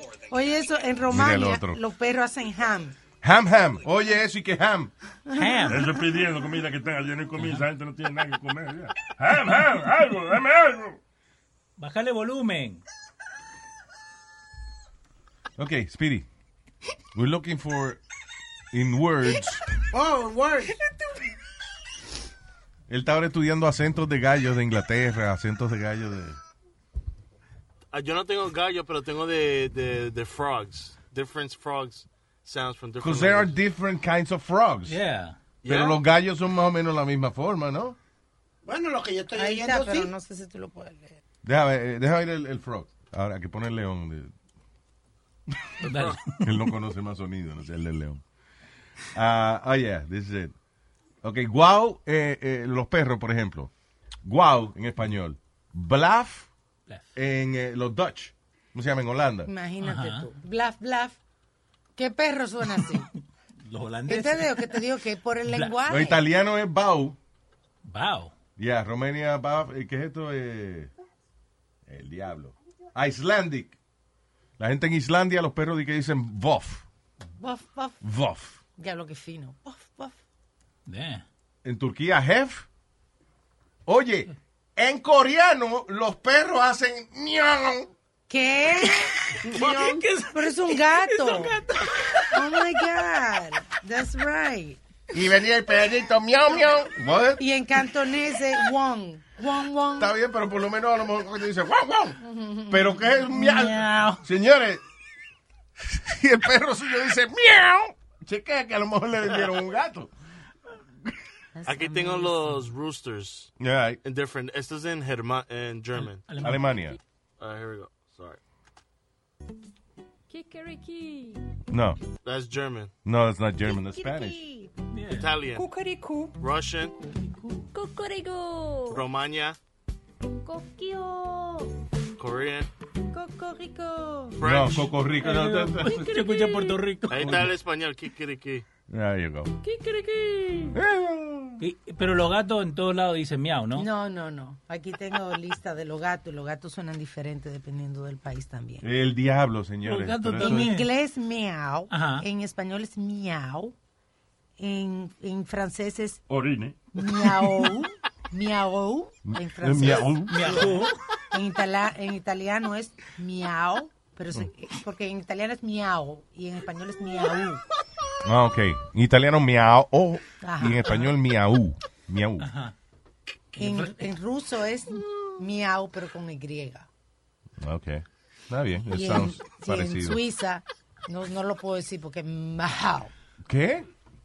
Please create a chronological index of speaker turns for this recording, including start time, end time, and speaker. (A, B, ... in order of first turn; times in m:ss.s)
0:00.3-0:03.0 A
0:01.1-0:01.8 B
0:03.2-0:04.9 B
0:05.3-0:05.8 A
0:05.3-0:05.9 C
0:05.7-0:11.0 D
0:11.8-0:12.8 C
0:15.6-0:16.3 B
0:17.1-0:18.0 B
0:18.7-0:19.6 B
0:19.9-0:20.8 E
0:22.9-0:26.4 B
0:27.9-0:33.5 F
0:33.0-0:35.0 B
0:34.9-0:35.4 C
0:35.6-0:36.0 F
0:35.6-0:38.0 B
0:38.6-0:40.1 E
0:39.4-0:41.1 A
0:41.4-0:44.3 B
0:45.8-0:46.7 C
0:45.9-0:46.2 F
0:46.4-0:48.2 B
0:49.1-0:50.5 B
0:51.2-0:53.7 B
0:54.2-0:56.5 B
0:57.1-0:59.5 B
0:59.4-1:01.2 A
0:59.8-1:00.3 C
1:02.0-1:03.1 A
1:03.6-1:04.8 C
1:04.1-1:06.2 A
1:05.5-1:05.8 C
1:05.8-1:07.2 B
1:07.8-1:08.3 C
1:08.6-1:10.9 B
1:11.9-1:13.8 B
1:14.6-1:16.8 B
1:17.4-1:18.0 A
1:18.0-1:18.6 B
1:18.8-1:20.2 A
1:20.9-1:21.2 C
1:21.6-1:22.6 B
1:23.8-1:27.9 B
1:28.3-1:31.6 A
1:29.2-1:32.4 C
1:32.3-1:34.8 A
1:35.1-1:37.4 B
1:37.4-1:40.1 A
1:40.0-1:42.2 B
1:42.2-1:43.2 A
1:42.7-1:44.8 B
1:43.3-1:44.2 C
1:45.8-1:50.1 B
1:51.5-1:52.7 A
1:51.6-1:56.3 F
1:53.6-1:54.0 B
1:56.0-1:56.8 C
1:56.4-1:57.0 B
1:57.4-1:58.4 F
2:00.3-2:01.4 G
2:01.7-2:02.0 B
2:02.2-2:02.9 F
2:03.0-2:04.4 B
2:03.7-2:04.7 A
2:04.9-2:05.3 C
2:05.1-2:05.7 F
2:05.5-2:06.4 G
2:06.4-2:07.0 F
2:07.0-2:07.6 C
2:07.7-2:09.0 G
2:08.9-2:09.6 F
2:10.3-2:11.7 G
2:12.2-2:12.7 F
2:13.1-2:14.4 G
2:13.7-2:14.4 A
2:14.4-2:15.0 F
2:14.4-2:16.1 B
2:15.2-2:17.5 C
2:15.8-2:16.8 G
2:17.1-2:18.6 F
2:17.1-2:17.5 B
2:18.9-2:19.5 B
2:19.6-2:20.8 G
2:20.7-2:21.6 B
2:21.6-2:23.9 C
2:23.8-2:28.8 A
2:28.8-2:30.7 B
2:29.8-2:30.9 C
2:30.4-2:33.7 A
2:31.9-2:32.2 C
2:34.6-2:36.2 A
2:36.3-2:36.8 D
2:36.9-2:47.6 A
2:39.3-2:40.3 B
2:40.3-2:41.0 C
2:48.2-2:52.5 B
2:50.4-2:51.0 A
2:52.4-2:52.7 C
2:53.6-2:53.9 C
2:53.6-2:56.9 A
2:57.6-3:00.2 B
2:58.8-3:03.1 A
3:03.4-3:03.9 B